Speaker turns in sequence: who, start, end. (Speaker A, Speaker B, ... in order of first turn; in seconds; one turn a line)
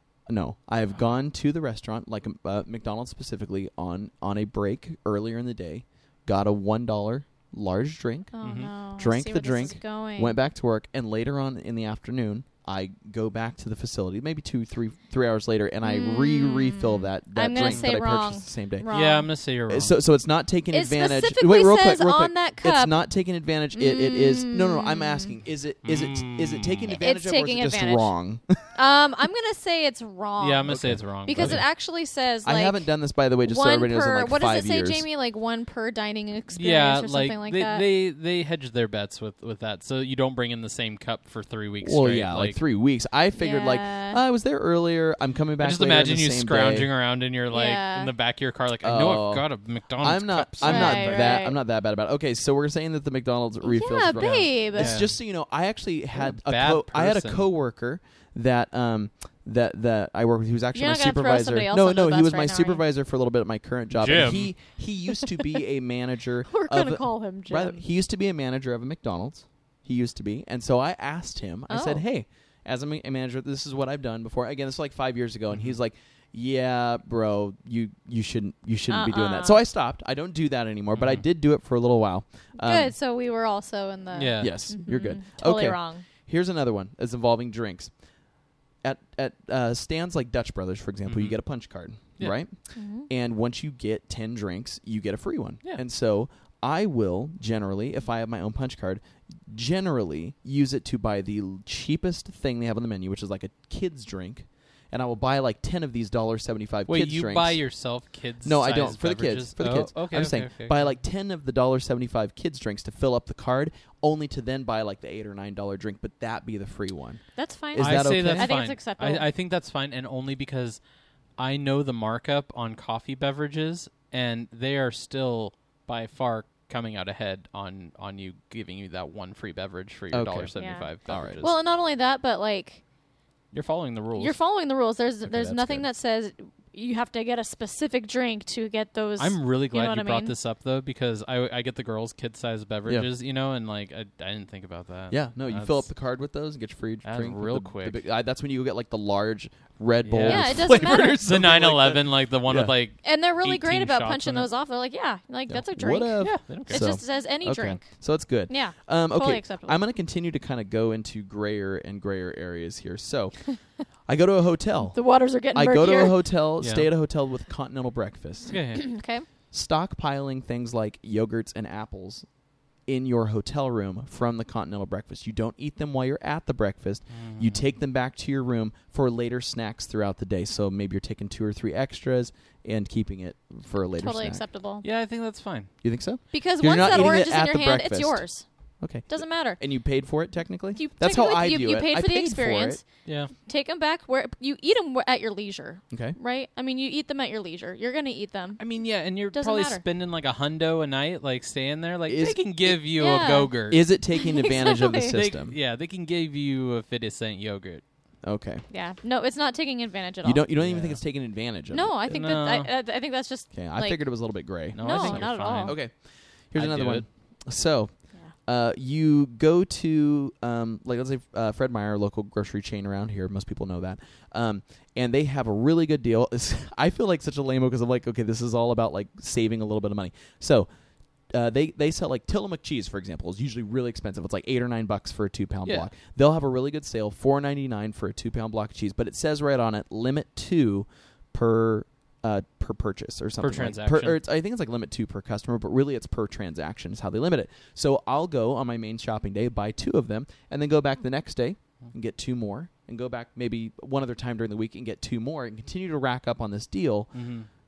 Speaker A: 0.3-8.3
Speaker B: 8.3-10.4
Speaker C: 8.4-8.7
Speaker A: 8.9-18.9
Speaker B: 15.8-19.3
Speaker C: 17.6-17.9
Speaker C: 18.9-19.9
Speaker A: 19.7-28.6
Speaker B: 20.7-23.0
Speaker B: 23.8-25.3
Speaker C: 25.8-26.9
Speaker B: 26.9-28.1
Speaker B: 28.8-32.9
Speaker C: 30.4-31.6
Speaker A: 30.7-31.6
Speaker A: 32.4-35.0
Speaker B: 33.4-37.9
Speaker C: 36.5-42.6
Speaker A: 41.8-46.9
Speaker B: 43.4-44.2
Speaker C: 45.6-51.4
Speaker B: 47.5-48.1
Speaker A: 48.8-49.5
Speaker A: 50.0-82.9
Speaker B: 50.6-51.6
Speaker B: 53.6-55.0
Speaker C: 54.2-55.2
Speaker C: 56.2-57.5
Speaker B: 60.7-62.8
Speaker C: 63.9-64.5
Speaker B: 66.5-67.8
Speaker B: 71.7-72.0
Speaker B: 78.9-79.6
Speaker C: 80.9-81.2
Speaker B: 82.6-86.0
Speaker C: 84.1-84.5
Speaker A: 84.4-87.9
Speaker A: 88.8-92.5
Speaker C: 91.1-91.4
Speaker B: 92.8-93.1
Speaker A: 93.1-107.6
Speaker C: 106.9-110.9
Speaker A: 108.4-117.2
Speaker B: 117.4-119.3
Speaker A: 117.7-118.5
Speaker C: 117.8-120.8
Speaker C: 121.4-131.5
Speaker A: 130.1-130.5
Speaker B: 130.6-130.9
Speaker A: 131.1-131.4
Speaker B: 131.4-132.8
Speaker C: 133.5-134.4
Speaker B: 134.2-140.3
Speaker A: 135.2-135.9
Speaker C: 139.2-145.9
Speaker A: 145.1-152.7
Speaker C: 147.0-148.0
Speaker C: 150.1-154.5
Speaker B: 150.2-151.2
Speaker B: 153.0-157.9
Speaker A: 155.5-163.4
Speaker C: 156.2-156.8
Speaker B: 158.5-159.8
Speaker A: 164.1-165.0
Speaker B: 164.9-166.2
Speaker A: 165.5-168.6
Speaker C: 166.6-166.9
Speaker C: 168.5-168.8
Speaker B: 168.7-169.3
Speaker A: 169.5-172.3
Speaker A: 172.9-184.4
Speaker C: 177.1-177.6
Speaker B: 184.0-184.8
Speaker C: 184.8-185.7
Speaker A: 185.8-188.2
Speaker B: 186.3-188.4
Speaker C: 186.7-187.2
Speaker A: 188.8-192.8
Speaker B: 189.1-189.6
Speaker B: 190.8-192.8
Speaker C: 193.1-193.3
Speaker B: 193.4-198.6
Speaker A: 195.9-196.2
Speaker C: 198.6-203.9
Speaker B: 199.3-199.8
Speaker A: 202.1-202.8
Speaker B: 202.9-203.5
Speaker A: 203.7-205.6
Speaker B: 204.1-205.2
Speaker C: 205.1-207.8
Speaker A: 208.2-208.6
Speaker B: 208.7-210.4
Speaker A: 210.2-211.9
Speaker C: 210.6-211.0
Speaker B: 211.7-214.0
Speaker C: 212.1-212.7
Speaker A: 213.5-215.9
Speaker C: 214.7-215.8
Speaker B: 214.8-215.8
Speaker A: 216.5-217.9
Speaker C: 216.6-217.1
Speaker A: 218.4-230.7
Speaker A: 231.3-257.1
Speaker C: 243.4-244.2
Speaker C: 257.1-257.5